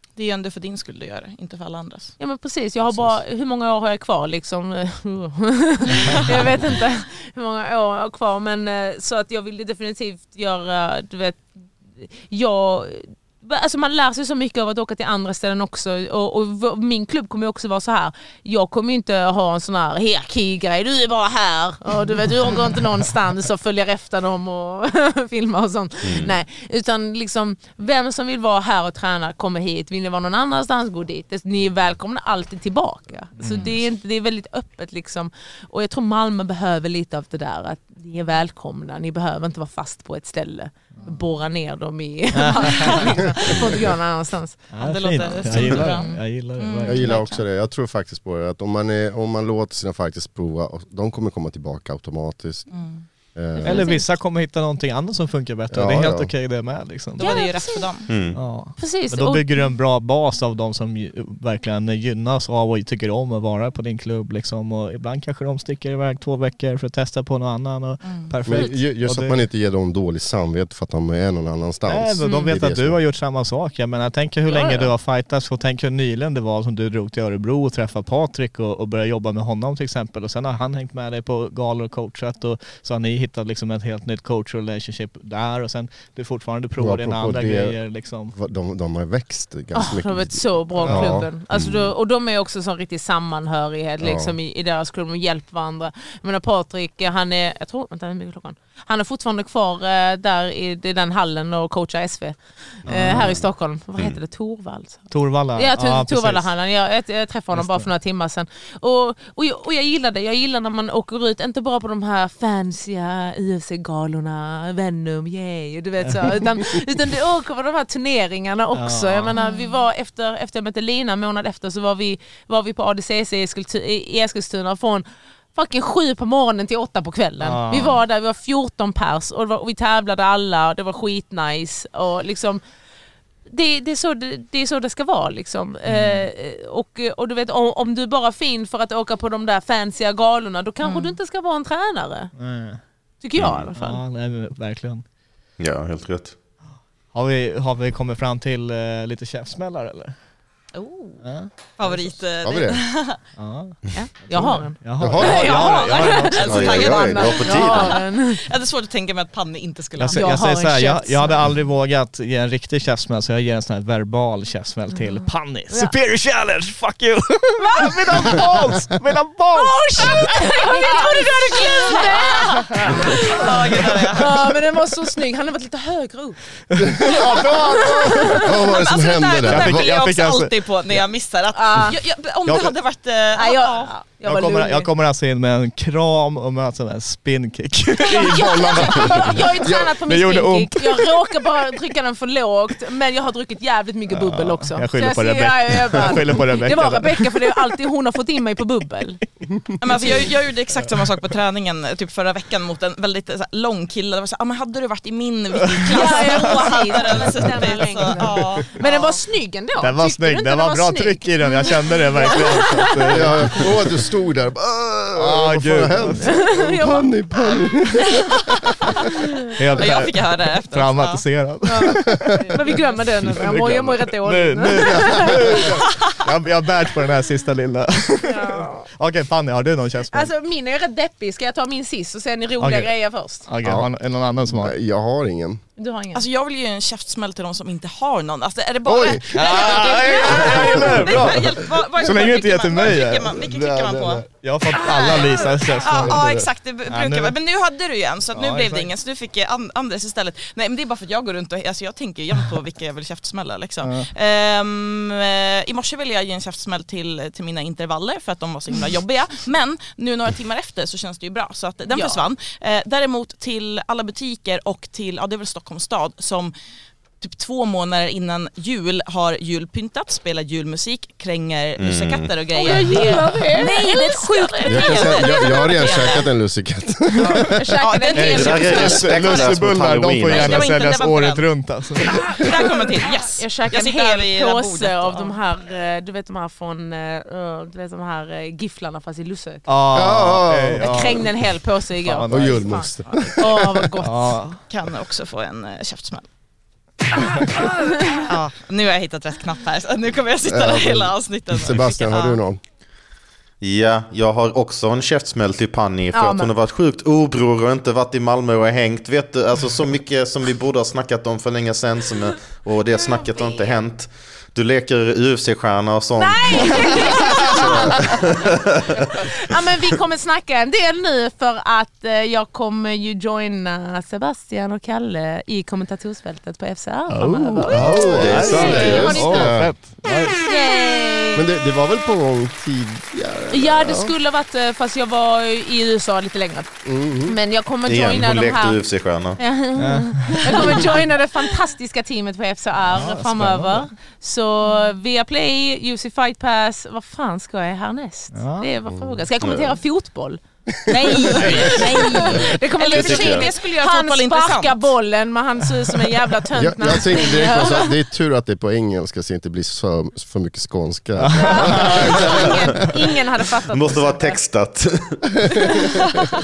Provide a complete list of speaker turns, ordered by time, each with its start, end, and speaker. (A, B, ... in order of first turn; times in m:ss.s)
0:00.2-0:02.2 A
0:02.2-0:44.6 B
0:05.9-0:06.5 A
0:26.0-0:26.4 C
0:33.4-0:33.7 D
0:42.3-0:43.0 D
0:43.5-0:43.9 E
0:44.7-0:47.3 D
0:44.8-0:47.4 A
0:45.1-0:46.2 B
0:46.9-0:53.8 E
0:52.7-0:53.1 A
0:53.6-0:57.8 D
0:53.7-0:54.0 B
0:55.7-0:56.3 E
0:57.2-0:58.1 A
0:57.2-0:58.2 B
0:58.1-0:58.4 C
0:58.3-1:09.4 D
0:58.8-0:59.6 B
1:08.0-1:08.3 A
1:08.4-1:13.0 E
1:11.9-1:28.4 D
1:12.2-1:12.5 B
1:14.5-1:14.9 B
1:26.8-1:27.8 E
1:28.3-1:31.3 E
1:29.7-2:12.6 B
1:30.8-1:31.2 D
1:31.5-1:31.9 C
1:34.0-1:34.4 E
1:42.9-1:43.4 E
1:45.1-1:46.5 D
1:47.5-1:47.9 D
1:56.0-1:56.5 D
1:58.7-1:59.3 D
1:59.4-1:59.8 A
2:07.4-2:08.0 D
2:13.5-2:22.3 B
2:15.9-2:16.3 D
2:20.8-2:21.1 A
2:22.4-2:22.8 D
2:23.2-2:24.0 B
2:23.4-2:23.7 C
2:23.8-2:25.0 D
2:25.6-2:26.4 C
2:27.1-2:30.2 D
2:30.8-2:31.2 A
2:31.2-2:31.5 D
2:31.8-2:33.2 A
2:31.8-2:32.8 E
2:33.4-2:36.7 D
2:33.9-2:38.4 B
2:34.4-2:40.4 A
2:35.0-2:35.6 E
2:36.5-2:38.0 C
2:36.6-2:37.4 E
2:40.0-2:50.5 D
2:40.1-2:41.4 B
2:47.6-2:48.4 B
2:49.5-2:56.4 B
2:50.2-2:54.4 A
2:56.7-2:58.5 D
2:56.8-3:00.0 E
2:57.0-2:58.5 B
2:58.7-3:04.0 A
2:59.4-3:00.5 D
3:01.6-3:02.0 B
3:01.8-3:02.7 D
3:03.4-3:04.9 B
3:04.2-3:11.3 D
3:08.1-3:19.2 B
3:09.6-3:10.0 E
3:14.1-3:17.7 D
3:19.8-3:29.2 A
3:19.9-3:20.2 B
3:25.8-3:26.4 D
3:25.9-3:33.7 B
3:29.8-3:33.9 D
3:33.1-3:38.6 E
3:35.2-3:36.5 D
3:36.2-3:38.3 B
3:39.6-3:50.3 D
3:39.8-3:41.3 A
3:41.7-3:45.8 B
3:48.2-3:48.9 B
3:50.1-3:53.5 B
3:52.6-3:54.7 D
3:53.6-3:53.9 E
3:54.4-3:55.6 E
3:55.8-3:56.2 B
3:56.1-4:26.5 A
3:58.8-3:59.6 E
3:59.3-4:03.3 D
4:00.5-4:01.3 E
4:03.4-4:04.2 E
4:04.4-4:06.2 D
4:05.9-4:06.5 E
4:06.9-4:07.4 D
4:08.3-4:08.9 D
4:13.8-4:14.1 D
4:21.9-4:22.2 B
4:27.2-4:36.2 A
4:31.8-4:32.3 C
4:32.6-4:36.2 B
4:34.7-4:37.6 E
4:37.2-4:39.4 B
4:37.8-4:38.9 A
4:38.1-4:42.5 D
4:38.3-4:40.8 C
4:40.3-4:45.4 A
4:42.5-4:49.7 B
4:49.7-4:51.5 D
4:49.9-4:51.3 E
4:50.8-4:54.4 B
4:52.0-4:52.9 D
4:52.3-4:53.7 E
4:53.0-4:53.4 A
4:54.0-4:54.6 D
4:54.7-4:56.3 A
4:57.6-4:58.2 B
4:58.2-5:02.4 A
5:00.5-5:02.6 E
5:03.6-5:19.3 C
5:06.1-5:06.5 B
5:13.1-5:13.8 B
5:16.2-5:18.2 B
5:19.0-5:29.6 B
5:27.1-5:30.4 D
5:27.7-5:29.8 E
5:27.8-5:29.2 C
5:30.4-5:31.4 B
5:31.3-5:34.2 E
5:33.5-5:38.8 B
5:36.8-5:37.4 E
5:37.9-5:39.4 C
5:39.4-5:58.0 B
5:39.8-5:41.0 D
5:42.9-5:43.9 D
5:48.3-5:48.7 D
5:48.9-5:49.2 E
5:49.4-5:49.7 C
5:50.9-5:54.9 A
5:52.9-5:53.5 C
5:56.6-6:02.6 E
6:01.2-6:02.2 D
6:01.4-6:04.4 B
6:03.7-6:06.1 C
6:05.5-6:05.8 E